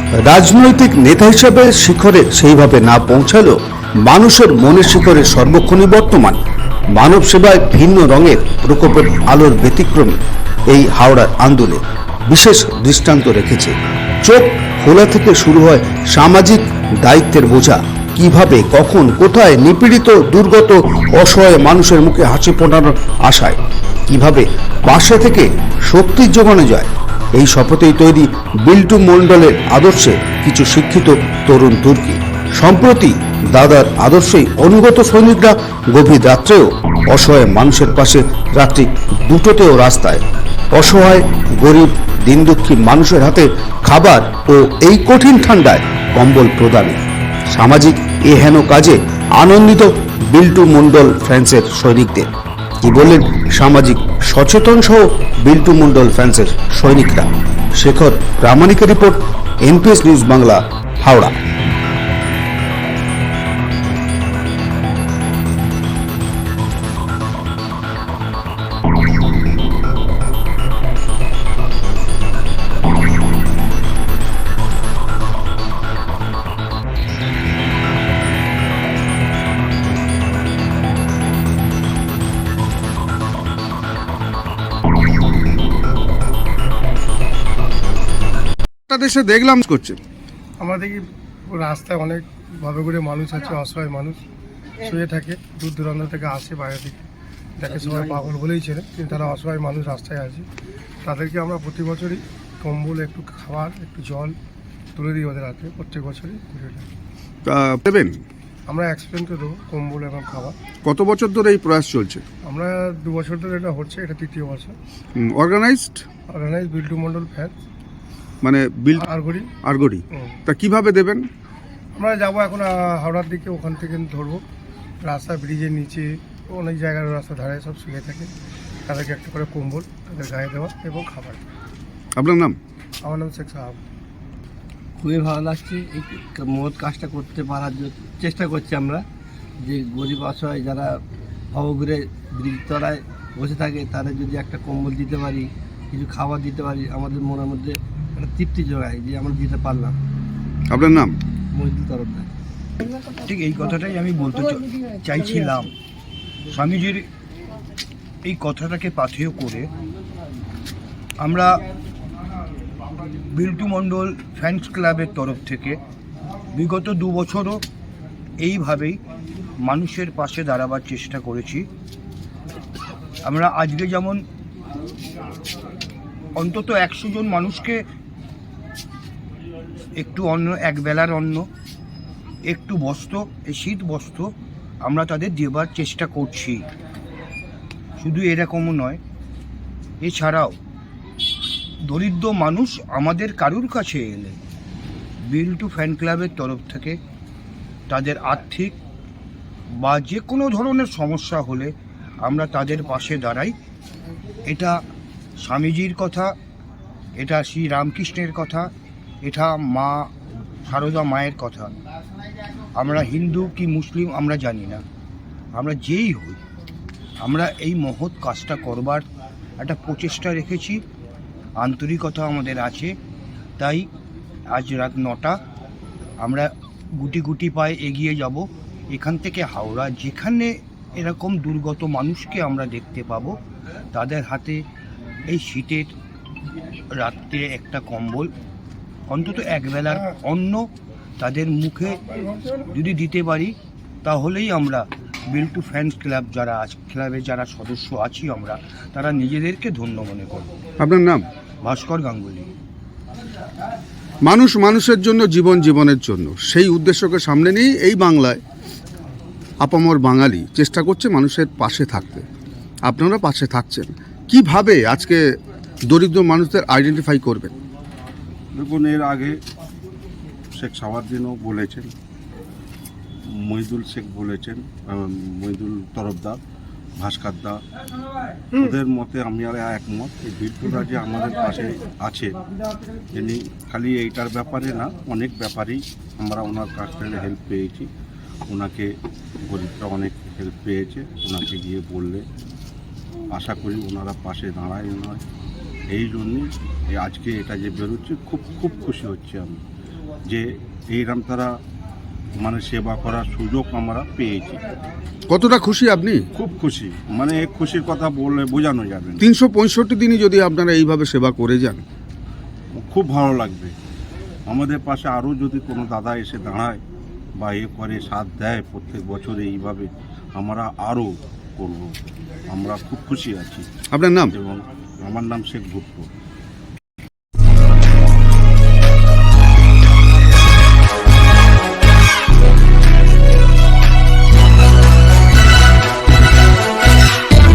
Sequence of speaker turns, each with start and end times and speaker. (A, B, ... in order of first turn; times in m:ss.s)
0:00.2-0:06.4 A
0:06.9-0:10.2 A
0:10.7-0:40.2 A
0:40.7-0:52.3 A
0:52.8-1:01.3 A
1:28.9-1:30.0 B
1:30.6-1:34.2 C
1:34.8-1:37.0 C
1:37.6-1:40.5 C
1:37.7-1:38.2 D
1:41.0-1:44.4 C
1:45.0-1:46.8 C
1:47.4-1:48.2 B
1:48.7-1:50.6 C
1:50.8-1:52.2 B
1:52.4-1:54.8 C
1:55.2-1:56.0 B
1:56.3-1:57.5 C
1:58.4-1:59.0 B
1:59.0-1:59.5 C
1:59.6-2:01.2 B
2:02.0-2:04.4 C
2:05.0-2:08.3 C
2:08.9-2:11.4 C
2:12.2-2:12.6 B
2:13.0-2:13.8 C
2:15.0-2:19.0 D
2:19.6-2:21.0 D
2:21.5-2:30.0 D
2:30.7-2:31.1 B
2:31.5-2:32.3 D
2:33.1-2:35.7 E
2:36.5-2:37.0 E
2:38.2-2:39.7 E
2:41.2-2:41.6 E
2:43.3-2:45.8 E
2:46.5-2:47.6 E
2:48.4-2:49.0 E
2:49.6-2:51.6 E
2:53.2-2:54.2 E
2:56.4-2:57.8 E
3:00.0-3:01.4 E
3:02.5-3:04.3 E
3:04.8-3:06.6 E
3:08.0-3:09.0 E
3:10.0-3:10.5 E
3:11.8-3:14.4 E
3:15.3-3:17.0 E
3:17.9-3:18.7 E
3:19.8-3:21.7 E
3:22.2-3:23.5 E
3:24.4-3:24.8 E
3:25.4-3:26.3 E
3:27.2-3:28.7 E
3:29.2-3:30.1 E
3:30.6-3:31.7 E
3:32.8-3:34.8 E
3:35.5-3:36.4 E
3:37.2-3:39.0 E
3:39.6-3:40.8 E
3:41.6-3:42.9 E
3:43.6-3:43.9 E
3:44.5-3:45.4 E
3:46.2-3:53.4 E
3:53.9-3:54.6 E
3:55.3-3:55.9 E
3:57.0-3:58.3 E
3:59.1-4:00.7 E
4:01.2-4:02.0 E
4:02.5-4:10.5 E
4:10.8-4:11.2 B
4:11.6-4:12.5 E
4:14.2-4:18.4 B
4:19.6-4:22.2 B
4:22.9-4:25.2 B
4:25.9-4:27.5 B
4:28.5-4:29.3 F
4:30.6-4:31.9 F
4:33.4-4:36.4 F
4:37.0-4:37.6 F
4:38.6-4:42.3 F
4:43.1-4:47.9 F
4:48.5-4:48.9 F
4:49.4-4:52.2 F
4:53.3-4:55.2 F
4:55.9-4:59.6 F
5:00.3-5:01.5 F
5:02.4-5:04.6 F
5:05.3-5:06.2 B
5:06.4-5:09.2 F
5:09.2-5:11.8 B
5:12.8-5:13.7 F
5:14.5-5:16.8 F
5:17.4-5:23.6 F
5:23.9-5:24.3 B
5:24.3-5:26.0 F